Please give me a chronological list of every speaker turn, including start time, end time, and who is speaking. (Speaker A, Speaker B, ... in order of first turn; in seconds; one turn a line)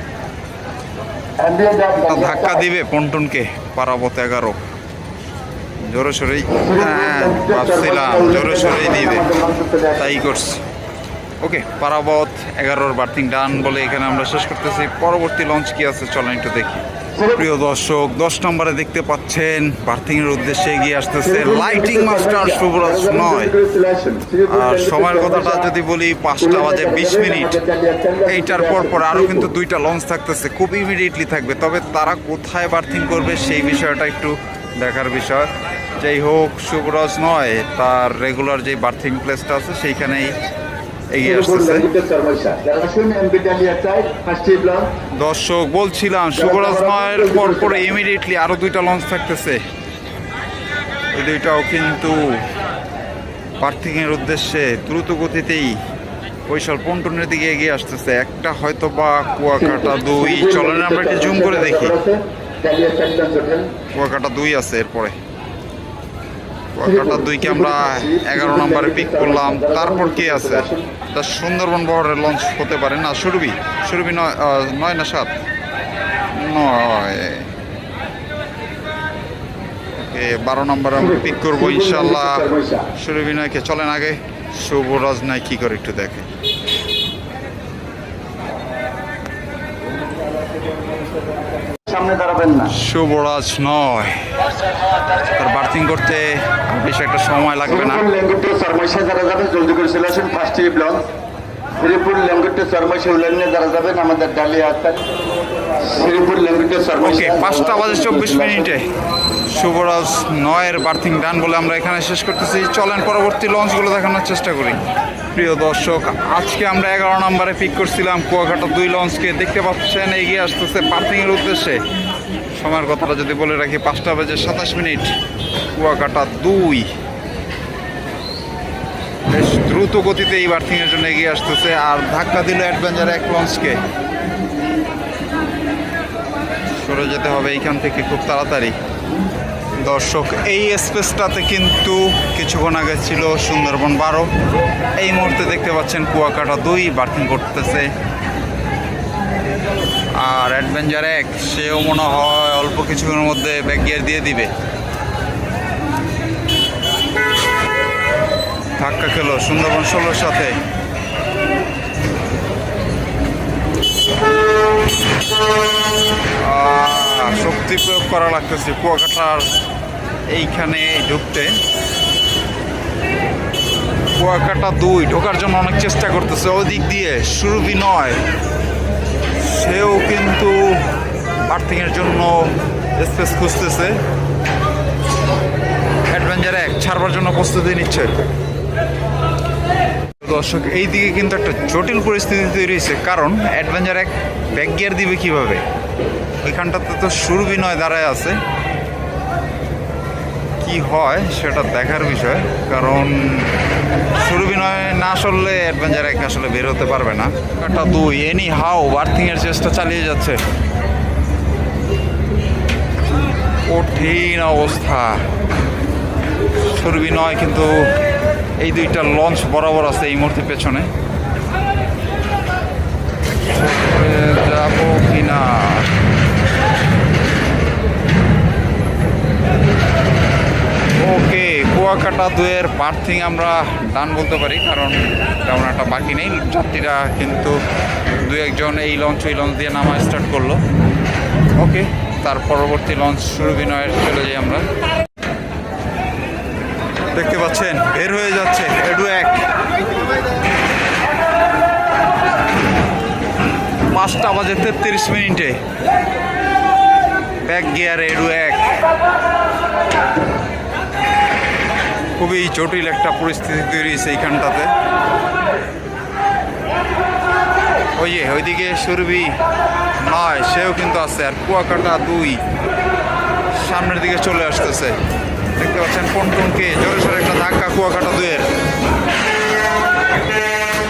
Speaker A: 1.4-2.6
Speaker B: 2.1-4.6
Speaker B: 5.8-9.3
Speaker A: 6.5-10.3
Speaker B: 10.0-10.6
Speaker B: 11.4-23.5
Speaker A: 17.1-17.4
Speaker A: 21.2-25.7
Speaker B: 24.5-27.6
Speaker A: 26.4-29.5
Speaker B: 28.3-40.4
Speaker B: 41.1-41.9
Speaker A: 41.2-44.9
Speaker B: 45.2-49.6
Speaker A: 46.3-47.9
Speaker B: 51.1-52.4
Speaker B: 53.6-55.8
Speaker B: 56.5-62.0
Speaker A: 59.6-63.7
Speaker B: 63.9-65.2
Speaker B: 66.8-75.3
Speaker A: 66.8-70.9
Speaker B: 76.3-77.5
Speaker B: 79.9-86.3
Speaker A: 81.0-82.9
Speaker A: 91.8-92.7
Speaker B: 92.7-94.2
Speaker B: 95.3-98.0
Speaker A: 97.7-101.1
Speaker A: 101.8-105.1
Speaker A: 105.8-108.8
Speaker B: 107.0-108.8
Speaker B: 109.5-114.8
Speaker B: 115.3-121.8
Speaker B: 122.5-125.1
Speaker B: 125.7-126.9
Speaker B: 129.3-133.8
Speaker B: 136.7-138.8
Speaker B: 139.8-144.3
Speaker B: 145.0-147.9
Speaker B: 150.2-154.5
Speaker B: 158.8-160.6
Speaker B: 166.4-169.5
Speaker B: 170.3-171.5
Speaker B: 174.2-178.2
Speaker B: 179.4-180.8
Speaker B: 181.5-182.4
Speaker B: 183.0-183.9
Speaker B: 186.1-188.2
Speaker B: 190.2-195.6
Speaker B: 196.4-198.4
Speaker B: 200.6-203.5
Speaker B: 204.1-210.4
Speaker B: 213.7-215.2
Speaker B: 216.7-217.9
Speaker B: 218.6-220.9
Speaker B: 223.4-225.9
Speaker B: 231.0-237.6
Speaker B: 238.2-240.6
Speaker B: 241.6-244.7
Speaker B: 247.1-249.4
Speaker B: 253.9-255.6
Speaker B: 257.4-258.8
Speaker B: 262.2-264.7
Speaker B: 268.0-269.4
Speaker B: 270.0-272.4
Speaker B: 273.6-275.0
Speaker B: 275.6-278.5